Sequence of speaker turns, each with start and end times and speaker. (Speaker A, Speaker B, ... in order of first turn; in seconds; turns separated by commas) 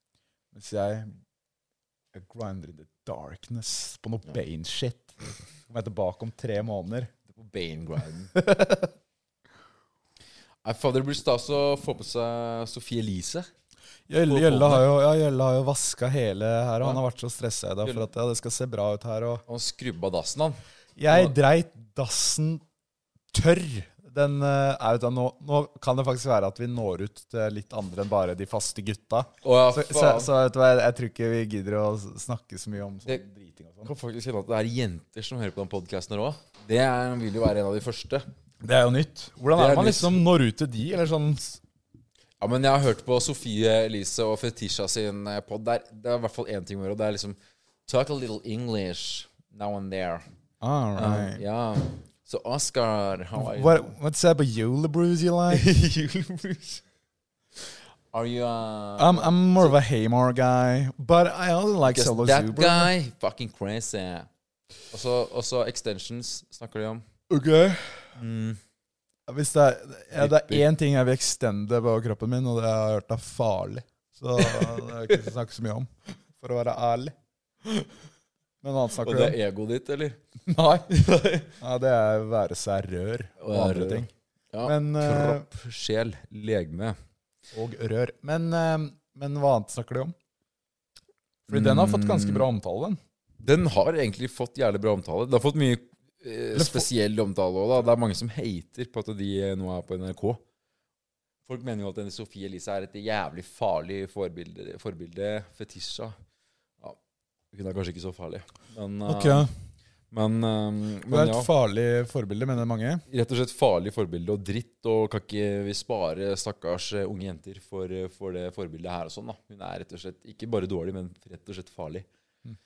Speaker A: 0.5-1.1, Speaker A: 2.1-7.1, Speaker B: 7.3-8.3, Speaker A: 8.3-8.9, Speaker B: 10.6-13.5, Speaker A: 14.1-19.4, Speaker B: 14.3-14.9, Speaker B: 19.5-21.3, Speaker A: 21.0-22.6, Speaker A: 23.3-33.9, Speaker B: 29.4-30.3, Speaker B: 33.9-38.3, Speaker A: 38.6-41.6, Speaker B: 39.5-40.1, Speaker B: 42.4-50.2, Speaker A: 50.6-51.4, Speaker B: 51.0-53.9, Speaker A: 53.4-55.7, Speaker B: 55.5-56.8, Speaker B: 58.1-59.8, Speaker A: 59.0-62.9, Speaker B: 61.9-64.3, Speaker B: 64.9-67.0, Speaker A: 67.3-68.1, Speaker B: 68.2-68.6, Speaker A: 69.3-77.1, Speaker B: 70.2-70.7, Speaker B: 74.4-74.8, Speaker A: 78.6-79.4, Speaker B: 79.0-80.2, Speaker A: 80.5-80.9, Speaker B: 80.9-81.5, Speaker A: 81.6-84.1, Speaker B: 83.4-87.0, Speaker A: 84.7-85.5, Speaker A: 87.5-90.2, Speaker A: 91.5-93.0, Speaker B: 91.5-92.5, Speaker B: 93.4-100.4, Speaker A: 96.5-96.9, Speaker B: 101.5-106.2, Speaker B: 107.5-109.5, Speaker A: 109.1-109.5, Speaker B: 110.1-111.5, Speaker A: 111.1-113.0, Speaker B: 113.1-122.1